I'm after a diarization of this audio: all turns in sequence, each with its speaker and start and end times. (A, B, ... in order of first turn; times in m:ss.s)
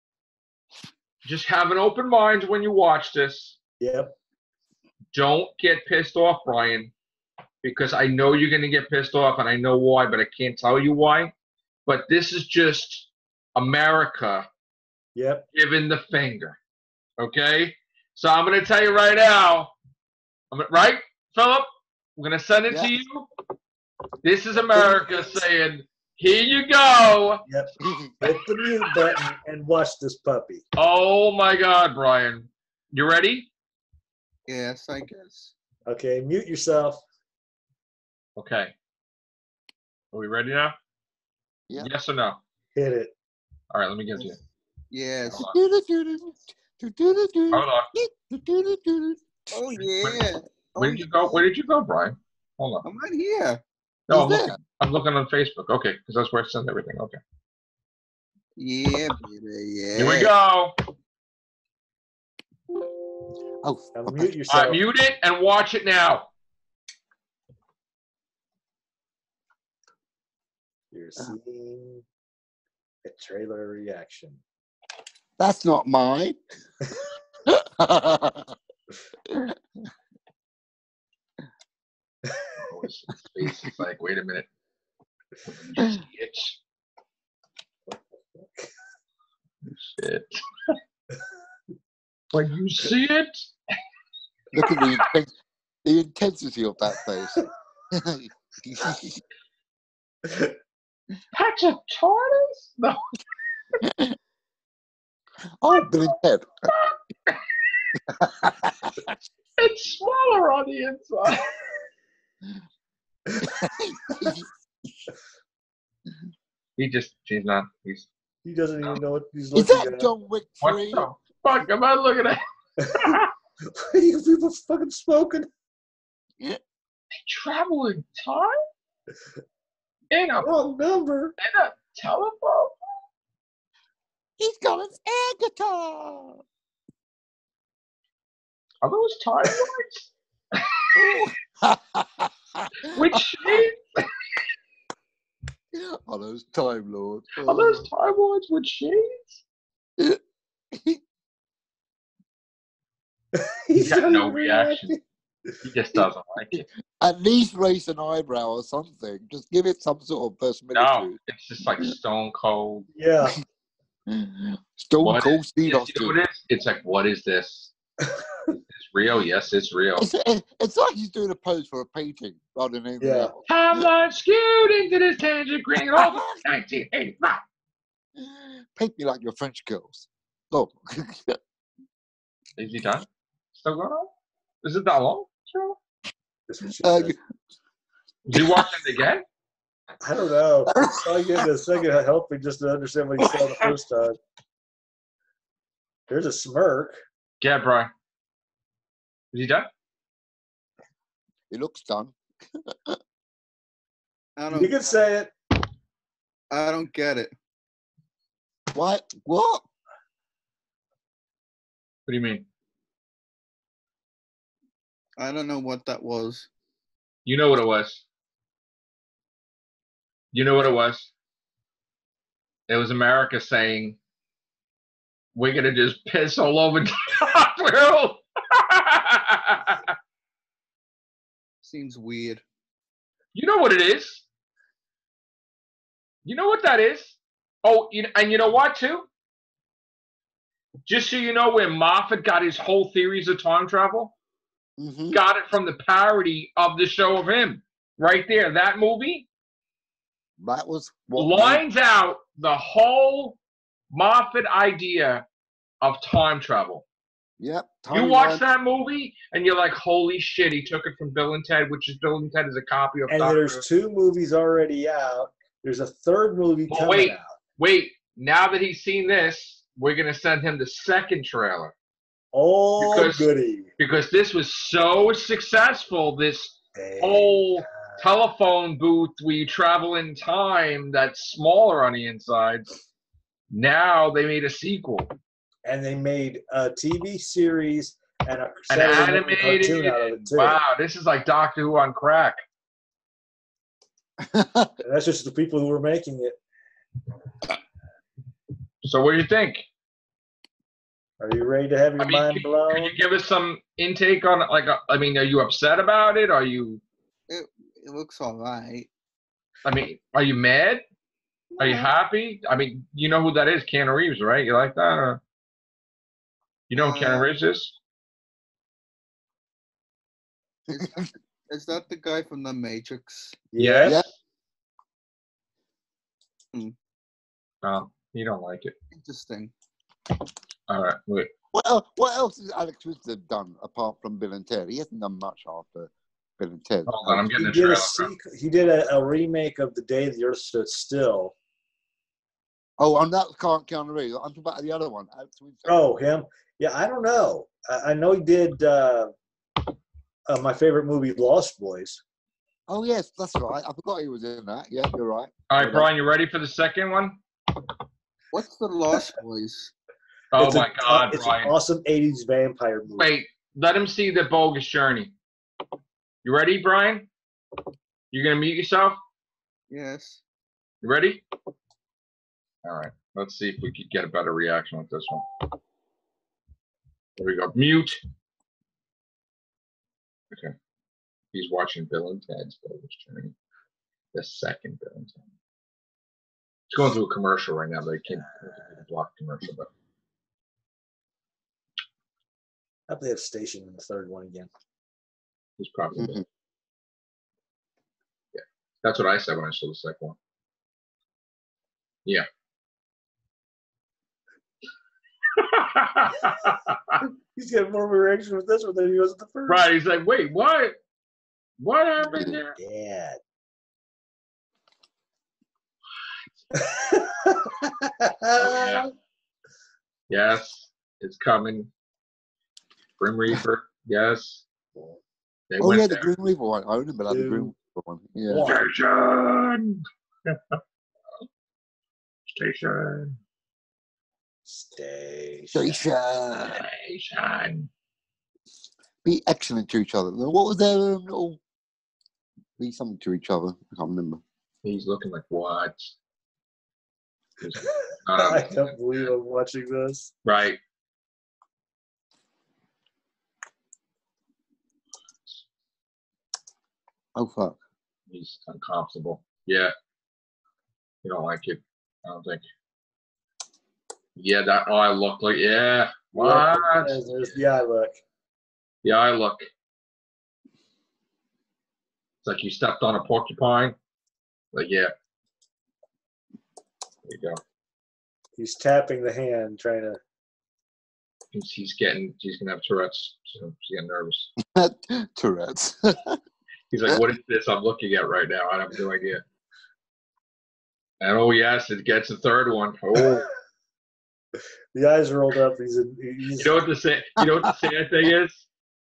0:01.2-0:03.6 A
0:03.8-0:04.1 B
0:05.1-0:06.9 A
0:07.6-0:11.3 A
0:11.9-0:14.5 A
0:15.2-0:15.5 B
0:15.5-0:16.6 A
0:17.2-0:19.7 A
0:20.5-0:23.3 A
0:24.2-0:27.4 A
0:24.7-0:25.4 B
0:27.5-0:30.6 B
0:27.8-0:28.1 C
0:30.8-0:33.5 A
0:34.5-0:35.5 D
0:35.9-0:37.0 B
0:38.4-0:38.8 A
0:40.1-0:40.8 A
0:41.8-0:42.4 A
0:42.8-0:43.1 B
0:43.7-0:44.4 A
0:44.9-0:45.5 D
0:45.3-0:49.8 C
0:47.5-0:47.9 A
0:49.5-0:51.4 D
0:50.8-0:52.8 A
0:52.8-0:53.6 D
0:54.1-0:57.2 A
0:54.1-0:54.6 C
0:58.6-1:00.3 D
1:00.0-1:00.8 A
1:03.6-1:04.3 C
1:04.0-1:04.8 B
1:04.5-1:06.3 A
1:10.9-1:12.0 B
1:13.0-1:14.4 B
1:15.4-1:16.4 C
1:17.5-1:18.5 C
1:19.3-1:19.6 C
1:22.6-1:24.5 A
1:25.5-1:26.6 A
1:27.9-1:28.7 B
1:29.7-1:30.8 A
1:32.3-1:33.5 A
1:34.5-1:39.2 C
1:34.6-1:35.0 A
1:41.3-1:43.0 A
1:43.8-1:44.2 C
1:45.6-1:46.7 C
1:45.7-1:47.4 A
1:48.1-1:49.2 C
1:49.6-1:51.6 A
1:53.4-1:55.0 C
1:56.8-1:58.1 A
1:58.4-2:00.1 B
1:59.5-2:01.1 C
2:00.6-2:03.3 A
2:02.8-2:03.2 B
2:03.7-2:05.5 B
2:07.2-2:08.6 A
2:10.1-2:10.5 A
2:10.4-2:11.4 B
2:11.4-2:12.8 A
2:14.4-2:16.4 C
2:18.8-2:21.2 A
2:20.9-2:23.6 C
2:22.9-2:23.8 A
2:25.7-2:27.9 C
2:27.4-2:29.4 A
2:30.7-2:31.0 C
2:33.3-2:35.0 B
2:33.8-2:35.0 A
2:35.6-2:36.7 A
2:36.5-2:41.2 C
2:40.7-2:42.9 A
2:42.9-2:43.4 B
2:44.1-2:46.2 C
2:45.0-2:47.7 A
2:48.7-2:50.1 A
2:50.0-2:53.9 C
2:53.0-2:53.3 B
2:53.5-2:57.4 A
2:56.0-2:56.4 C
2:58.2-3:01.4 C
3:02.6-3:05.8 A
3:06.5-3:07.2 B
3:06.8-3:07.2 C
3:08.3-3:09.2 A
3:08.3-3:08.6 C
3:10.0-3:14.2 B
3:10.8-3:11.5 C
3:13.2-3:13.7 C
3:16.1-3:17.0 B
3:17.4-3:17.9 A
3:19.3-3:19.7 A
3:21.5-3:23.0 C
3:24.4-3:25.0 D
3:24.5-3:25.3 B
3:26.5-3:27.3 D
3:28.7-3:29.6 C
3:32.1-3:32.4 A
3:35.2-3:36.5 D
3:37.2-3:38.0 A
3:40.3-3:41.1 A
3:42.7-3:44.0 A
3:45.4-3:49.9 A
3:51.6-3:52.4 D
3:53.3-3:54.2 A
3:56.2-3:59.1 A
4:00.9-4:04.2 A
4:04.8-4:05.2 C
4:05.1-4:09.3 A
4:10.4-4:11.6 C
4:11.2-4:13.4 A
4:13.9-4:15.2 A
4:15.8-4:16.8 A
4:17.4-4:18.4 C
4:17.9-4:23.6 A
4:23.1-4:27.4 B
4:26.7-4:31.7 A
4:32.3-4:33.7 B
4:32.8-4:33.3 A
4:33.8-4:42.7 A
4:36.8-4:38.0 B
4:43.5-4:45.2 A
4:45.6-4:50.6 B
4:48.7-4:52.4 A
4:54.2-4:54.7 C
4:54.8-4:56.4 B
4:58.8-4:59.7 A
5:01.2-5:03.0 B
5:02.0-5:06.8 A
5:07.3-5:08.9 D
5:09.6-5:10.8 A
5:11.5-5:11.9 D
5:11.6-5:15.2 A
5:16.7-5:17.8 A
5:16.7-5:17.3 D
5:20.7-5:23.4 D
5:20.7-5:21.1 C
5:23.5-5:24.0 B
5:23.6-5:24.2 A
5:27.6-5:28.7 A
5:28.9-5:29.5 D
5:30.7-5:31.3 A
5:31.5-5:37.2 C
5:36.9-5:38.1 A
5:37.3-5:41.3 B
5:42.8-5:45.7 C
5:45.7-5:49.1 B
5:50.3-5:52.0 B
5:52.7-5:55.9 C
5:55.5-5:57.2 A
5:58.3-5:59.7 D
6:00.3-6:01.5 A
6:00.4-6:03.1 B
6:03.0-6:05.2 A
6:06.2-6:07.1 A
6:08.1-6:09.0 A
6:09.7-6:10.2 D
6:10.8-6:11.2 A
6:12.6-6:15.5 A
6:17.2-6:18.0 A
6:21.3-6:23.3 A
6:24.1-6:25.3 A
6:26.7-6:29.7 A
6:32.9-6:34.5 B
6:35.6-6:36.2 A
6:36.0-6:36.2 C
6:38.3-6:40.2 A
6:45.4-6:47.0 A
6:47.4-6:49.7 B
6:49.5-6:50.8 A
6:51.6-6:52.6 A
6:52.6-6:53.2 B
6:56.6-6:58.9 B
6:58.4-6:58.9 A
7:00.1-7:01.7 A
7:03.0-7:04.4 A
7:05.5-7:06.1 A
7:05.6-7:08.5 C
7:07.1-7:07.5 B
7:08.3-7:08.7 B
7:08.4-7:10.6 A
7:12.3-7:13.2 A
7:14.5-7:15.9 B
7:15.5-7:16.6 C
7:16.5-7:17.7 A
7:19.0-7:21.4 C
7:22.6-7:24.2 C
7:24.6-7:26.0 A
7:27.4-7:29.1 A
7:28.2-7:30.1 B
7:30.2-7:30.6 A
7:37.2-7:37.6 C
7:38.1-7:39.7 A
7:41.0-7:42.4 A
7:44.2-7:47.4 A
7:46.2-7:48.0 B
7:48.8-7:49.5 A
7:52.2-7:53.8 A
7:54.5-7:54.9 A
7:57.0-7:57.4 A
7:58.4-8:00.0 B
8:01.3-8:04.3 A
8:04.4-8:06.2 C
8:06.7-8:09.2 A
8:11.0-8:13.3 A
8:13.0-8:13.3 B
8:14.8-8:16.5 B
8:16.4-8:18.5 A